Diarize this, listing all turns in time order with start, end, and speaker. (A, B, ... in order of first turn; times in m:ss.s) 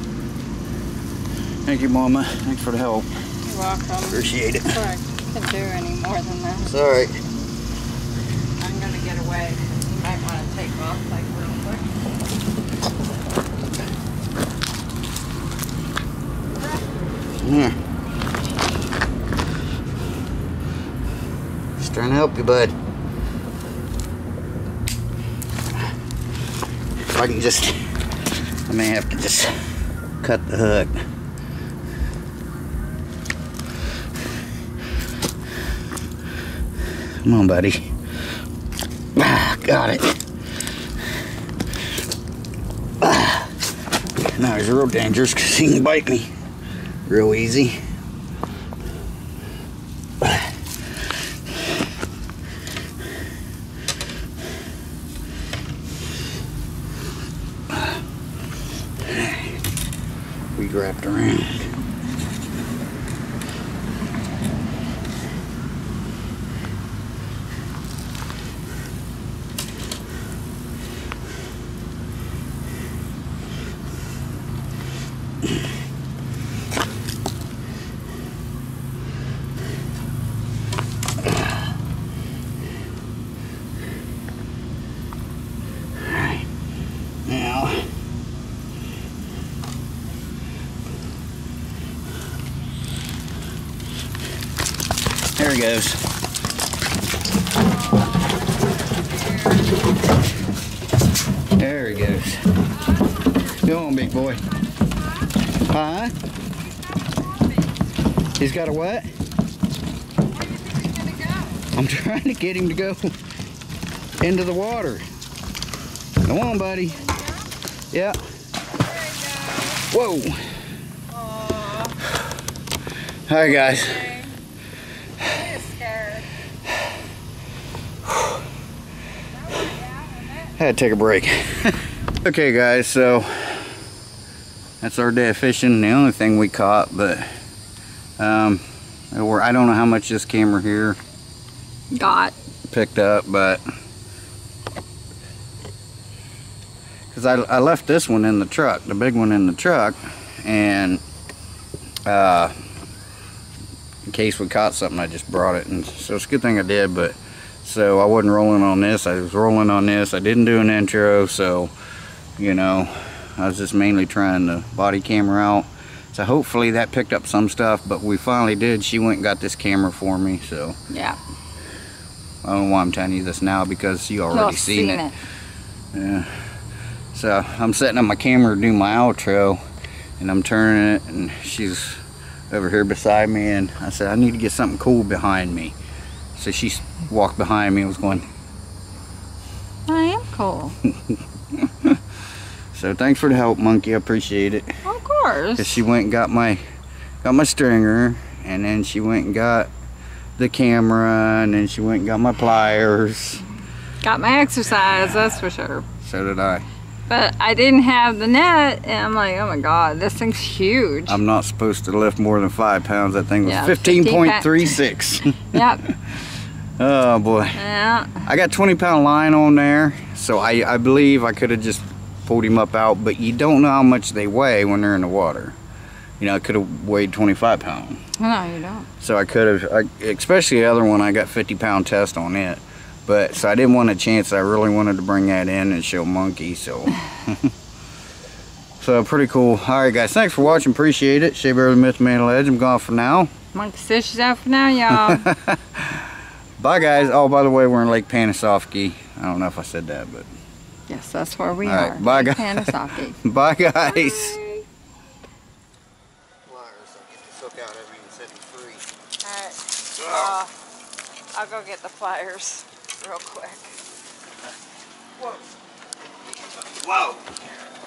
0:01.6-0:03.1 A
0:03.4-0:06.8 B
0:04.1-0:04.8 A
0:06.7-0:07.2 A
0:08.6-0:11.9 B
0:17.4-0:17.8 A
0:21.8-0:22.8 A
0:27.0-0:27.9 A
0:28.7-0:31.0 A
0:37.2-0:37.9 A
0:39.2-0:40.2 A
0:43.0-0:43.6 A
0:44.2-0:46.3 A
0:47.1-0:47.8 A
0:50.2-0:50.5 A
0:59.0-0:59.6 A
1:00.6-1:01.7 A
1:26.0-1:26.5 A
1:27.2-1:27.9 A
1:35.4-1:36.1 A
1:37.9-1:39.7 B
1:41.6-1:42.4 A
1:42.7-1:45.6 B
1:43.6-1:44.4 A
1:45.6-1:46.2 A
1:46.6-1:47.9 B
1:48.4-1:49.1 A
1:50.2-1:51.7 B
1:51.7-1:53.2 A
1:54.2-1:55.0 A
1:56.2-1:57.0 A
1:56.9-1:57.5 B
1:57.9-1:58.2 A
1:58.7-1:59.9 B
1:59.9-2:00.5 A
2:01.1-2:02.0 B
2:03.3-2:04.0 A
2:03.4-2:04.4 B
2:05.2-2:06.3 B
2:09.3-2:10.6 B
2:10.6-2:13.8 A
2:14.8-2:17.3 A
2:18.2-2:21.0 A
2:21.9-2:22.4 B
2:22.7-2:23.6 A
2:27.1-2:31.0 A
2:32.1-2:32.6 A
2:34.1-2:41.7 A
2:42.4-2:50.8 A
2:50.9-2:51.2 B
2:52.4-2:55.0 A
2:54.3-2:55.2 B
2:55.9-2:56.5 A
2:57.1-2:59.6 A
3:00.2-3:05.8 A
3:06.4-3:08.3 A
3:09.9-3:10.8 B
3:11.5-3:12.0 A
3:12.7-3:14.8 A
3:14.8-3:15.8 B
3:15.6-3:16.6 A
3:17.2-3:19.7 A
3:20.4-3:23.4 A
3:24.0-3:25.9 B
3:26.0-3:26.6 A
3:27.1-3:31.2 B
3:31.1-3:36.1 A
3:33.4-3:35.9 B
3:36.8-3:37.6 A
3:37.5-3:38.3 B
3:38.2-3:45.6 A
3:46.2-3:48.0 A
3:48.2-3:48.9 B
3:49.0-3:57.5 A
3:58.8-4:03.3 A
4:03.5-4:05.3 B
4:04.9-4:10.3 A
4:10.9-4:13.2 B
4:11.6-4:14.4 A
4:13.8-4:14.7 B
4:16.5-4:18.9 A
4:19.2-4:20.5 B
4:21.3-4:23.8 B
4:26.5-4:27.4 A